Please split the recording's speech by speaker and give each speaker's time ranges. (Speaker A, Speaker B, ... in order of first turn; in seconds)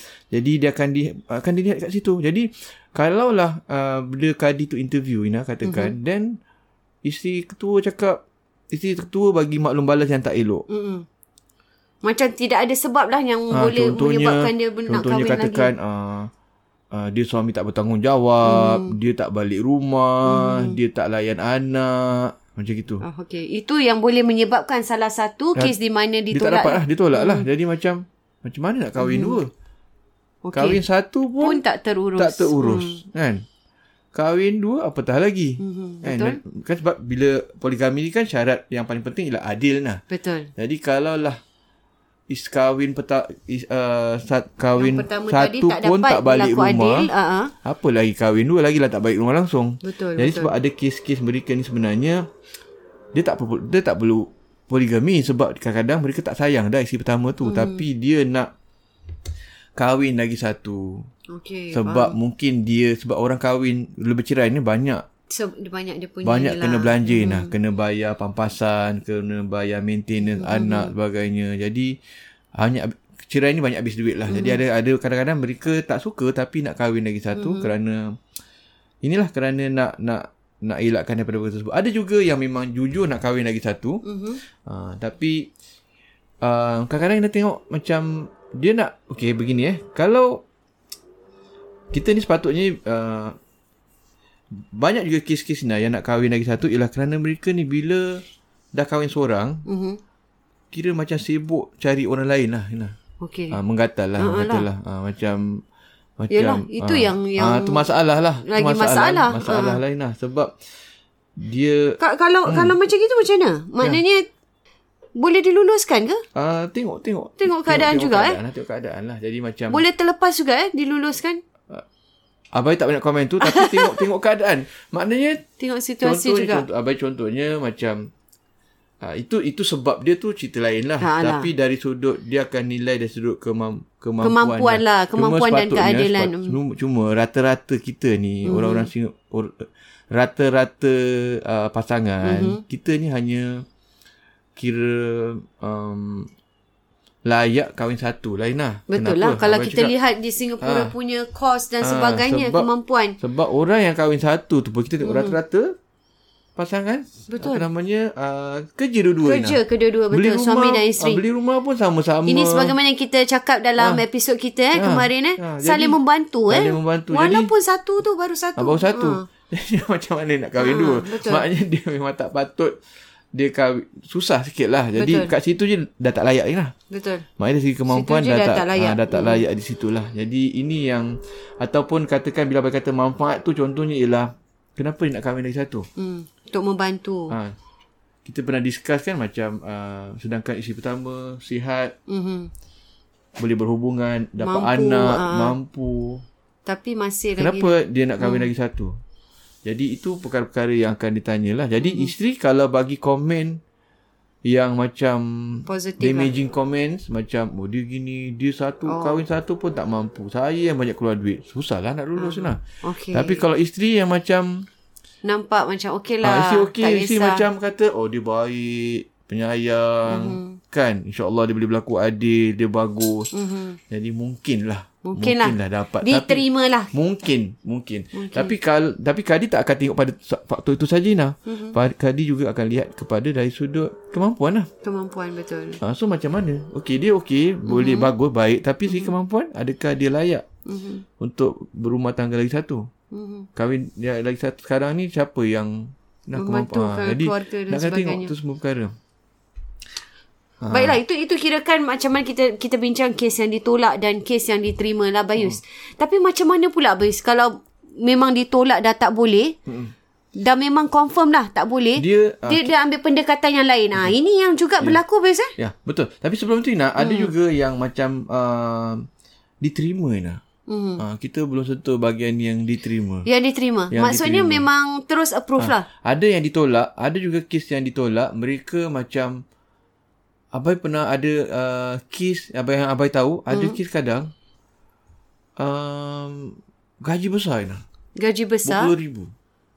Speaker A: 0.3-6.4, 7.0-10.7, 13.5-16.3, 16.9-23.0, 26.3-29.5, 30.5-31.6, 32.2-33.5, 34.1-40.0, 40.6-41.4, 42.3-47.1, 47.6-52.2, 53.1-58.5, 59.8-61.1, 61.7-65.0, 66.2-72.0, 72.6-78.2, 79.0-84.0, 84.7-85.5, 86.4-90.4, 91.9-93.4, 94.6-98.2, 98.8-99.6, 100.7-103.0, 103.5-105.6, 106.2-110.5, 111.4-112.8, 116.3-119.8, 122.5-125.5, 126.0-128.1, 129.0-143.6, 144.6-146.3, 147.3-150.0, 150.6-150.9, 151.8-152.7, 153.2-155.8, 156.6-159.6, 160.1-162.7, 163.8-164.0, 164.7-166.0, 166.5-167.5, 168.6-172.8, 173.3-176.7, 177.4-185.9, 187.3-187.6, 188.2-192.0, 193.4-196.2, 197.4-198.9, 199.7-203.6, 204.5-212.6, 213.1-214.7, 216.2-223.3, 223.9-234.7, 235.8-240.4, 241.2-242.9, 243.6-248.9, 250.6-251.0, 259.7-259.9, 262.0-262.7, 265.6-269.1, 269.6-270.4, 271.0-273.3, 273.9-274.7, 275.6-279.4, 280.5-284.3, 285.6-287.8, 288.6-289.3
Speaker B: 5.7-6.0, 10.7-11.1, 12.0-15.7, 18.4-18.9, 20.2-20.8, 23.0-27.5, 29.0-29.4, 30.4-30.8, 31.4-33.0, 35.6-36.4, 40.1-40.5, 44.8-47.5, 49.8-50.5, 57.4-57.9, 61.3-62.2, 65.3-67.5, 70.3-70.9, 74.3-74.6, 77.3-77.7, 84.0-84.4, 99.7-100.0, 103.2-103.6, 104.2-104.7, 106.3-107.9, 108.4-109.8, 112.0-114.3, 115.2-116.2, 117.4-118.4, 119.7-121.4, 123.4-124.0, 125.6-126.7, 131.0-131.5, 134.2-136.6, 138.4-138.9, 142.2-142.6, 148.9-153.2, 155.0-155.4, 157.3-157.7, 159.2-161.2, 162.3-169.2, 170.6-171.4, 174.9-175.3, 176.9-177.3, 177.9-179.4, 186.0-187.4, 192.1-192.5, 194.4-195.6, 196.7-198.5, 201.8-202.1, 205.7-206.3, 208.9-209.2, 212.2-213.4, 215.2-217.5, 220.1-220.6, 223.3-223.8, 225.0-226.9, 228.1-228.6, 231.5-231.8, 234.8-235.8, 237.7-238.1, 240.7-241.1, 243.1-243.5, 246.4-248.3, 250.7-259.6, 260.4-265.5, 267.0-267.3, 270.7-271.0, 273.3-275.9, 283.5-283.8, 288.2-288.9